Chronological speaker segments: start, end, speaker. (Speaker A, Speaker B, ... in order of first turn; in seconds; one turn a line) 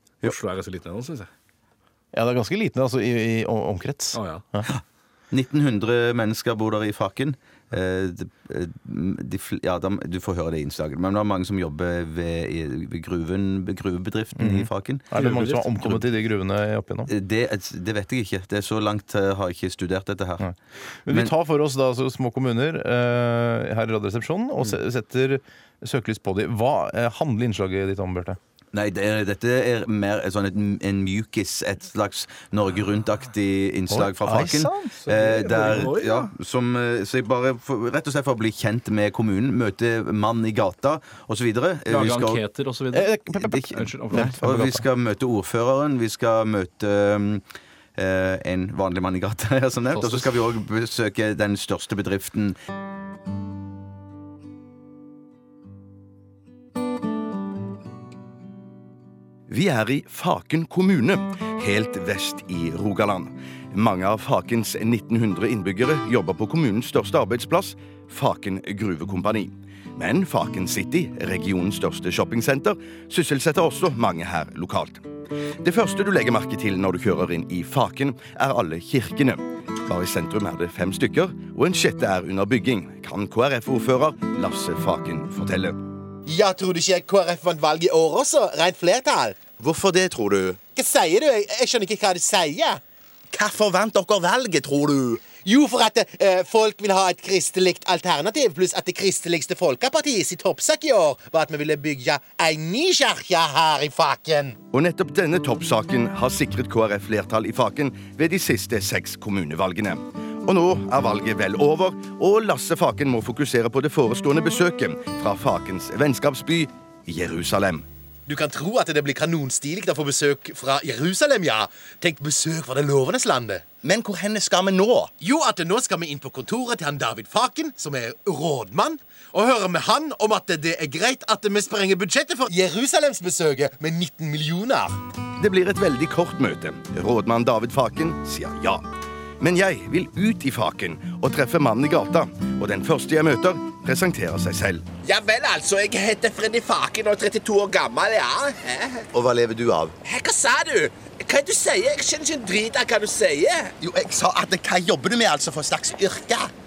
Speaker A: 0.2-1.3
Speaker B: 2.1-4.7
Speaker A: 4.1-4.5
Speaker C: 4.7-16.0
Speaker B: 14.4-17.1
Speaker C: 17.1-20.5
Speaker B: 21.1-28.4
Speaker C: 21.1-21.3
Speaker C: 28.7-42.5
Speaker B: 33.9-36.0
Speaker A: 35.4-36.1
Speaker A: 41.9-43.1
Speaker B: 42.9-44.8
Speaker C: 43.3-47.4
Speaker C: 48.0-52.6
Speaker D: 59.5-75.1
Speaker D: 75.6-85.8
Speaker E: 86.3-89.5
Speaker D: 89.6-90.6
Speaker E: 90.7-92.8
Speaker D: 93.3-95.3
Speaker E: 95.3-104.6
Speaker D: 104.7-117.9
Speaker E: 118.3-123.7
Speaker D: 123.8-125.1
Speaker E: 125.2-135.0
Speaker D: 135.4-138.8
Speaker D: 139.4-144.9
Speaker F: 145.0-149.1
Speaker D: 149.1-150.0
Speaker F: 150.0-153.7
Speaker D: 153.8-156.5